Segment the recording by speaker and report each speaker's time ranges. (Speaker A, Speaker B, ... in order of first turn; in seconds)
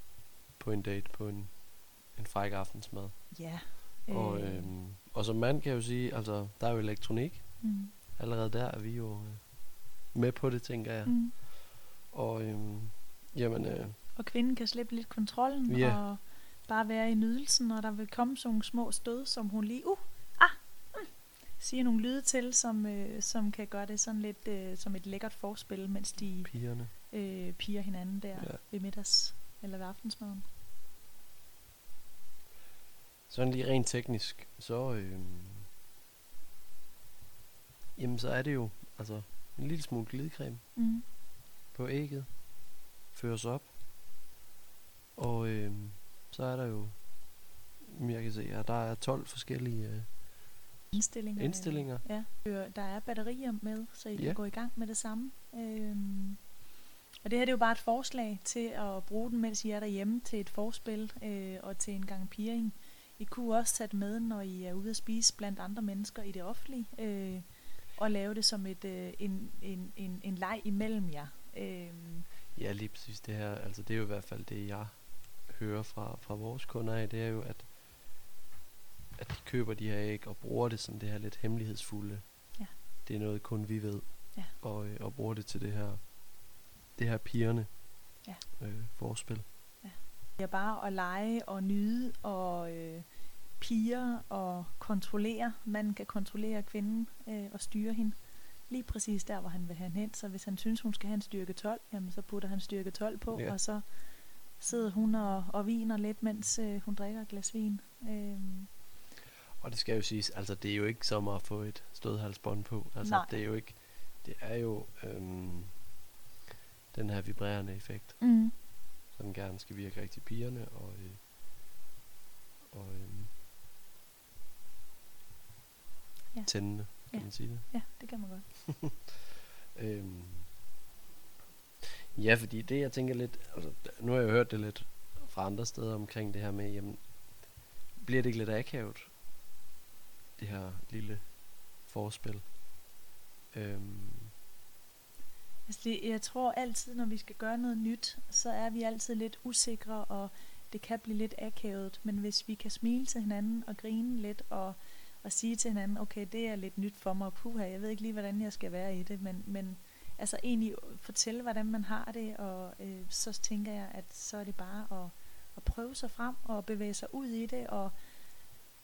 Speaker A: 0.6-14.1, 15.7-16.1, 26.4-26.9, 33.3-35.7, 37.9-41.1, 41.7-43.7, 45.1-52.1, 54.1-54.4, 72.5-78.1, 79.2-89.5, 103.3-103.6, 109.6-115.9, 116.9-121.2, 122.7-123.3, 126.4-127.7, 129.7-130.6, 132.1-139.1, 140.4-142.7, 143.5-144.3
Speaker B: 3.3-4.7, 7.6-7.9, 11.0-11.3, 14.1-30.4, 40.7-41.0, 50.9-56.6, 57.2-72.3, 89.8-108.8, 113.0-113.4, 118.2-118.5, 126.3-128.8, 145.7-168.1